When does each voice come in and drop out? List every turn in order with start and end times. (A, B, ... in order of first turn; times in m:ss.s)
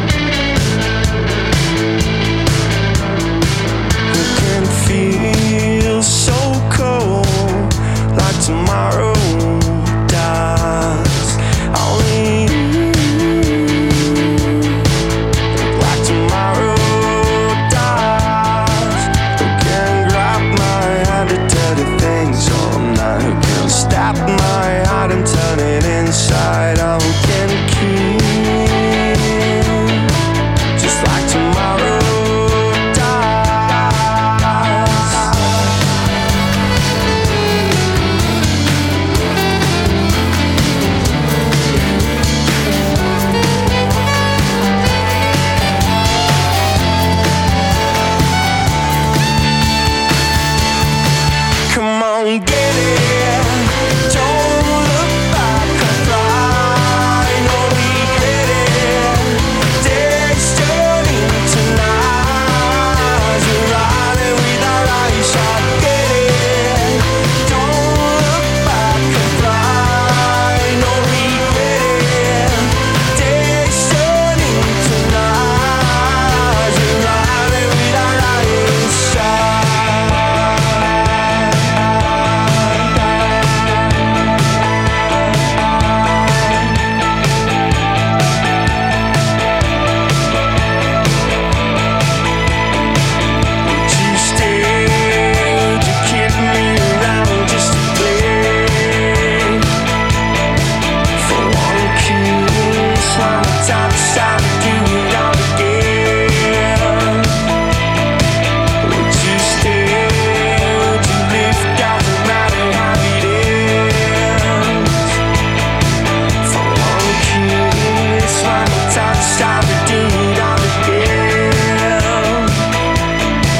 0:04.1-0:14.6 A
0:15.5-0:30.1 A
0:30.8-0:35.5 A
0:51.7-1:23.3 A
1:26.2-1:26.7 A
1:33.6-1:39.7 A
1:41.2-1:47.4 A
1:48.8-1:55.2 A
1:56.4-2:02.7 A